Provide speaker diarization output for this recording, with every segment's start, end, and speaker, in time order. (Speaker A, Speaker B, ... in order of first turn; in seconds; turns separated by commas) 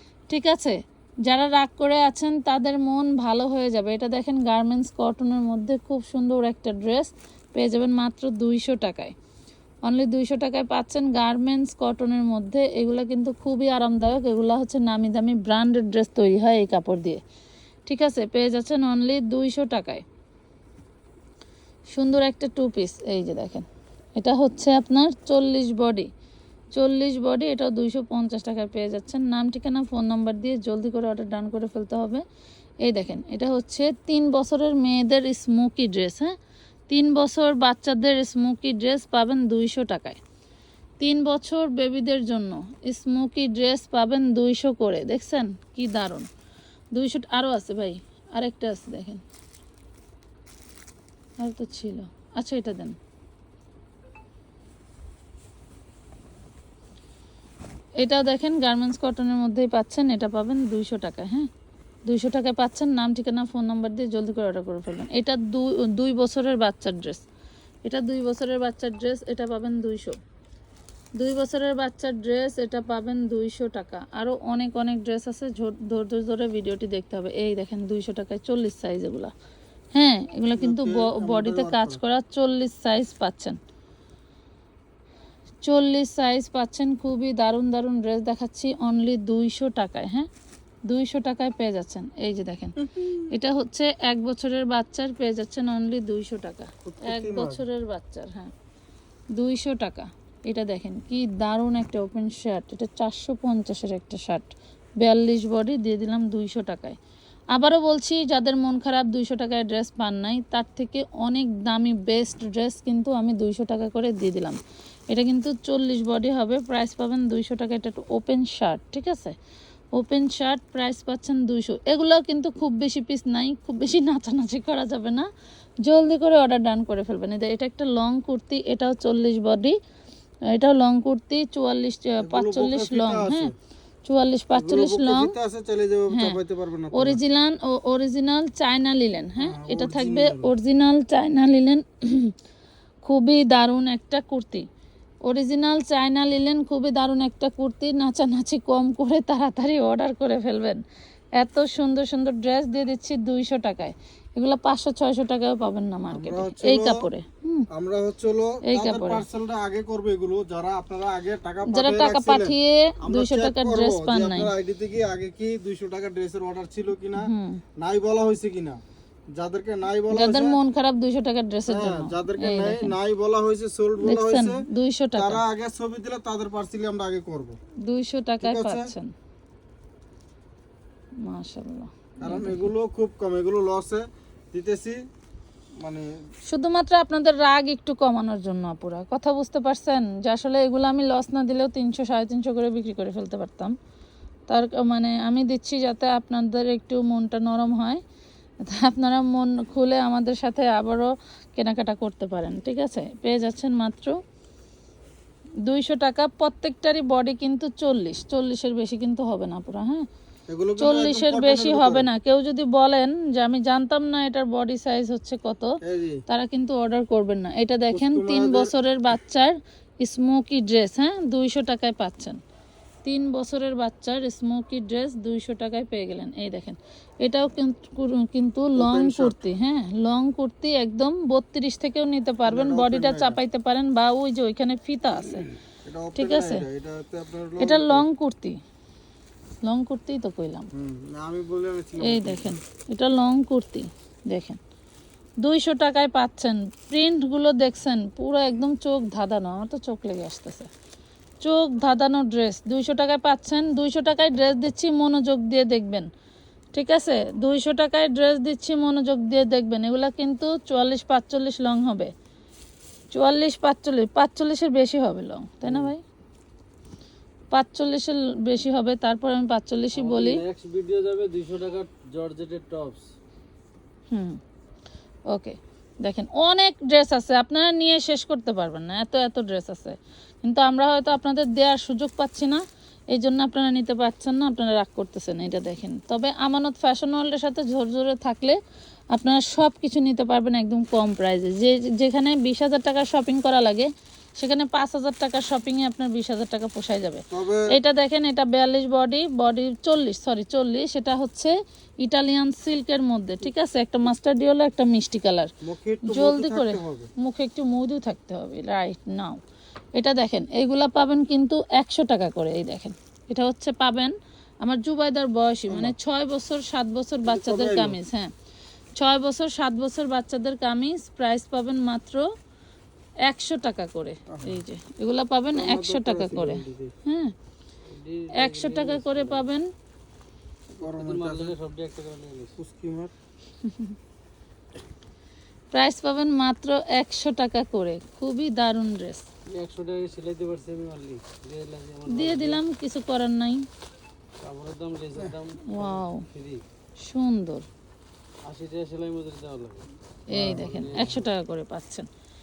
Speaker A: 0.3-9.1, Speaker A: 9.8-17.2, Speaker A: 17.9-20.0, Speaker A: 21.9-26.1, Speaker A: 26.7-32.2, Speaker A: 32.8-36.3, Speaker A: 36.9-40.2, Speaker A: 41.0-46.3, Speaker A: 46.9-49.2, Speaker A: 51.4-53.0, Speaker A: 58.0-61.5, Speaker A: 62.0-67.2, Speaker A: 67.8-70.2, Speaker A: 71.2-79.3, Speaker A: 80.0-83.6, Speaker B: 80.6-82.0, Speaker A: 85.6-90.3, Speaker A: 90.9-98.5, Speaker B: 92.9-93.2, Speaker B: 96.8-97.7, Speaker A: 99.3-107.0, Speaker A: 107.5-114.6, Speaker A: 115.1-119.4, Speaker A: 119.9-125.3, Speaker A: 125.8-129.8, Speaker A: 130.5-133.5, Speaker B: 132.2-133.5, Speaker A: 134.1-135.3, Speaker B: 134.6-137.2, Speaker A: 136.1-136.4, Speaker A: 136.9-142.3, Speaker B: 139.4-140.5, Speaker A: 143.0-144.7, Speaker A: 145.2-150.8, Speaker A: 151.4-157.7, Speaker B: 156.1-157.1, Speaker B: 157.7-168.8, Speaker A: 158.7-159.2, Speaker A: 161.7-164.5, Speaker A: 167.2-167.6, Speaker B: 169.3-170.6, Speaker A: 170.1-172.9, Speaker B: 171.7-174.6, Speaker A: 174.0-175.4, Speaker B: 175.2-177.6, Speaker A: 177.8-179.1, Speaker B: 178.4-178.9, Speaker A: 181.2-182.7, Speaker B: 182.2-185.0, Speaker B: 185.8-186.1, Speaker A: 186.4-193.8, Speaker A: 194.5-198.0, Speaker A: 198.6-204.2, Speaker A: 205.6-210.1, Speaker B: 210.5-212.1, Speaker A: 210.8-215.8, Speaker B: 215.8-216.2, Speaker A: 216.3-222.4, Speaker B: 217.9-218.7, Speaker A: 223.0-235.5, Speaker B: 228.8-229.4, Speaker B: 232.5-233.4, Speaker B: 235.8-238.1, Speaker A: 236.2-236.7, Speaker A: 237.6-238.6, Speaker A: 239.6-240.7, Speaker B: 240.7-242.5, Speaker A: 242.0-244.6, Speaker A: 245.4-250.7, Speaker A: 251.4-256.1, Speaker A: 256.7-262.1, Speaker A: 263.1-266.0, Speaker A: 267.5-270.4, Speaker C: 269.9-273.1, Speaker A: 274.1-274.4, Speaker A: 275.3-288.6, Speaker A: 289.1-305.5, Speaker B: 297.3-297.7, Speaker B: 305.6-307.1, Speaker A: 306.0-309.4, Speaker A: 309.9-318.3, Speaker B: 315.7-316.0, Speaker B: 317.2-318.0, Speaker A: 319.0-322.3, Speaker A: 323.2-327.3, Speaker B: 324.3-324.6, Speaker B: 325.5-326.9, Speaker C: 327.9-329.5, Speaker A: 328.3-329.7, Speaker B: 330.8-331.6, Speaker C: 330.8-332.6, Speaker B: 332.6-333.1, Speaker A: 333.6-333.9, Speaker A: 335.7-339.3, Speaker C: 339.5-342.6, Speaker A: 342.1-343.7, Speaker C: 344.4-346.6, Speaker A: 345.7-346.3, Speaker A: 347.0-347.6, Speaker C: 348.4-349.9, Speaker A: 350.3-352.1, Speaker B: 350.3-351.3, Speaker C: 350.4-351.2